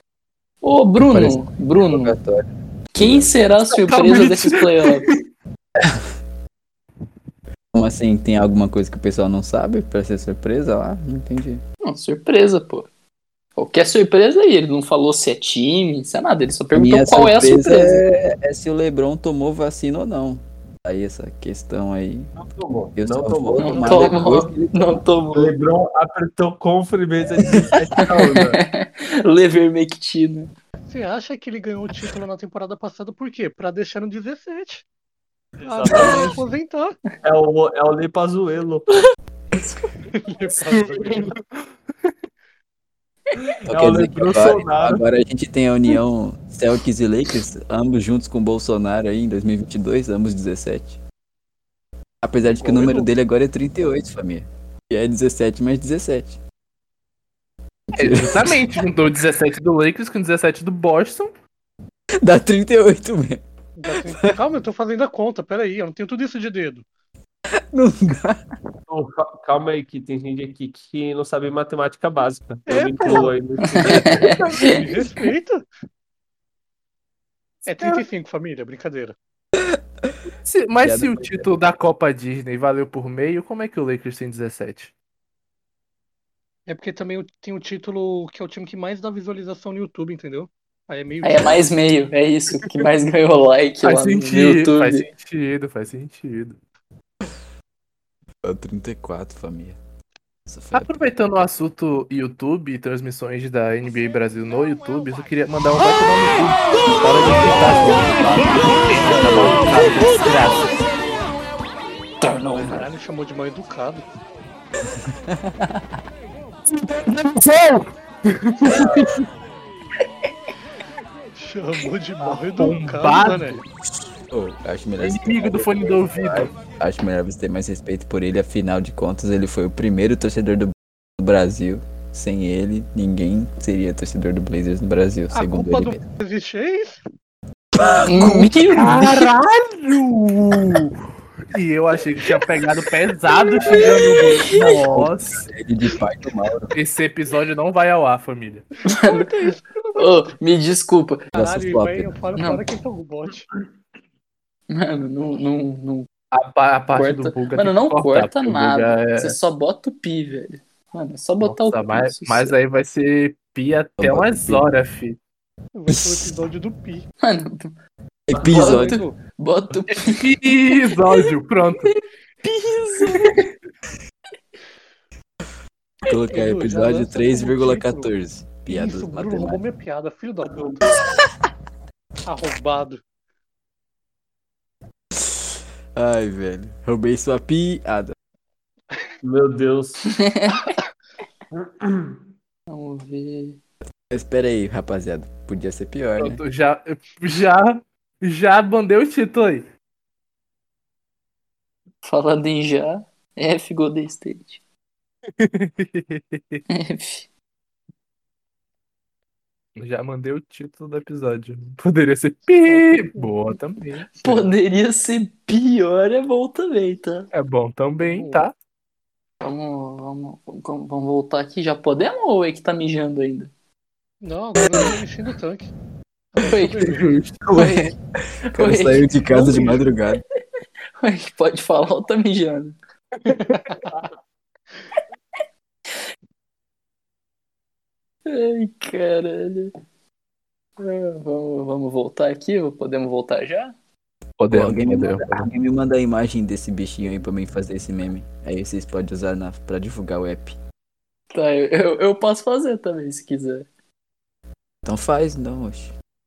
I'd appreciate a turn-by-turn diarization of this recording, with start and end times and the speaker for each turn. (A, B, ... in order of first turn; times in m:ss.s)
0:00.6-0:02.1 A
0:01.0-0:03.3 B
0:02.9-0:05.1 A
0:03.8-0:04.5 C
0:07.7-0:11.6 B
0:11.8-0:12.9 A
0:13.6-0:18.1 A
0:16.7-0:22.3 B
0:22.4-0:24.5 D
0:23.0-0:25.0 B
0:23.6-0:25.5 A
0:25.3-0:28.6 D
0:28.0-0:30.5 A
0:30.9-0:34.8 E
0:35.6-0:36.4 D
0:35.6-0:37.0 E
0:37.2-0:38.9 D
0:39.6-0:39.9 A
0:40.1-0:41.3 E
0:40.7-0:41.6 C
0:43.6-0:45.0 D
0:43.7-0:51.0 B
0:52.2-0:56.4 B
0:52.5-0:53.1 D
0:57.9-0:58.6 B
0:58.0-1:01.3 C
1:02.2-1:04.3 B
1:03.8-1:06.8 E
1:07.7-1:08.4 B
1:08.9-1:14.8 D
1:12.7-1:15.6 E
1:13.6-1:14.4 A
1:17.7-1:19.2 E
1:20.4-1:24.9 C
1:20.8-1:21.5 B
1:26.7-1:31.6 E
1:31.2-1:35.1 A
1:33.8-1:36.6 C
1:38.4-1:39.8 B
1:40.5-1:41.0 B
1:40.7-1:50.7 C
1:52.3-1:52.6 A
1:52.4-1:54.0 E
1:55.3-1:55.5 B
1:56.8-1:59.2 C
2:01.4-2:03.6 E
2:02.2-2:03.6 C
2:04.3-2:16.0 B
2:05.0-2:06.5 C
2:15.3-2:17.0 E
2:17.8-2:18.5 B
2:18.0-2:19.3 A
2:18.7-2:20.9 C
2:21.5-2:25.5 C
2:23.7-2:23.9 B
2:24.3-2:24.8 A
2:24.5-2:26.7 B
2:26.7-2:28.7 C
2:28.9-2:29.3 A
2:28.9-2:30.3 E
2:30.0-2:31.2 A
2:31.3-2:33.5 E
2:31.3-2:32.1 B
2:32.4-2:32.6 A
2:34.7-2:36.1 A
2:36.3-2:39.4 C
2:36.9-2:42.5 A
2:41.4-2:45.2 C
2:44.0-2:44.6 B
2:45.7-2:47.1 E
2:45.9-2:46.3 B
2:47.2-2:47.8 A
2:48.3-2:49.0 B
2:48.3-2:48.7 D
2:48.4-2:50.9 A
2:48.5-2:49.2 E
2:49.9-2:51.9 C
2:51.8-2:53.4 A
2:56.0-2:59.6 B
2:56.3-2:58.1 E
2:58.7-3:01.0 E
3:00.4-3:00.8 D
3:02.2-3:03.0 E
3:05.2-3:08.1 B
3:09.2-3:10.0 D
3:10.2-3:10.7 A
3:11.5-3:12.2 D
3:12.7-3:13.6 A
3:14.1-3:16.4 B
3:16.2-3:19.7 C
3:22.0-3:24.6 A
3:25.4-3:26.6 C
3:26.7-3:27.3 A
3:29.8-3:34.5 C
3:32.7-3:33.4 E
3:34.2-3:37.3 A
3:37.3-3:38.5 C
3:38.0-3:38.5 E
3:39.4-3:43.5 A
3:44.2-3:45.7 E
3:46.3-3:47.2 E
3:46.4-3:46.9 A
3:46.9-3:47.3 C
3:47.4-3:47.9 B
3:47.5-3:47.9 A
3:48.5-3:49.9 A
3:48.5-3:50.2 B
3:51.0-3:52.8 A
3:53.3-3:53.9 E
3:58.2-3:59.7 A
4:00.8-4:03.7 A
4:04.4-4:05.5 C
4:04.5-4:10.6 B
4:11.3-4:13.7 A
4:14.8-4:15.9 B